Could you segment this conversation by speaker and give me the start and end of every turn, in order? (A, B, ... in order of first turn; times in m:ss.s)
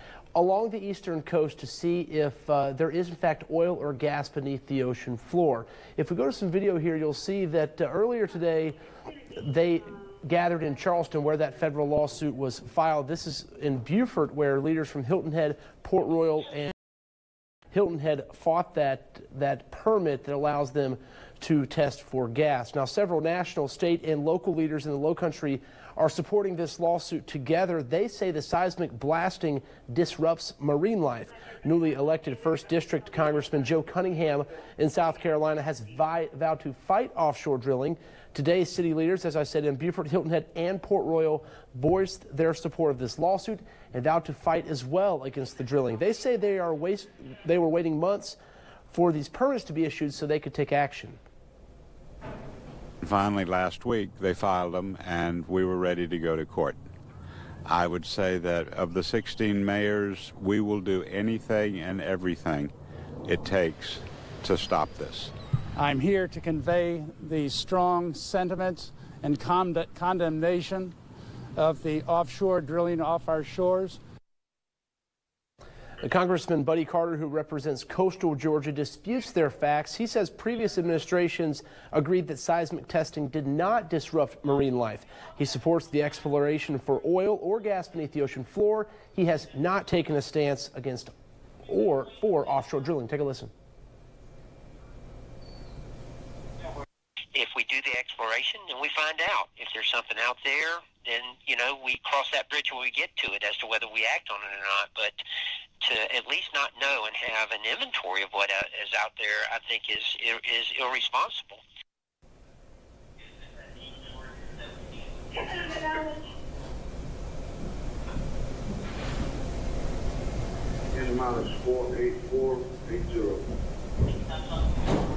0:00.3-0:08.8 A
0:09.4-0:16.7 A
0:17.7-0:48.4 A
0:48.9-0:51.2 A
0:53.0-0:56.8 B
0:57.7-1:02.7 B
1:03.3-1:05.3 B
1:05.8-1:10.9 C
1:11.6-1:14.0 C
1:16.0-1:31.1 A
1:31.7-1:33.5 A
1:37.3-1:45.2 D
1:45.8-1:51.6 D
2:00.9-2:03.5 E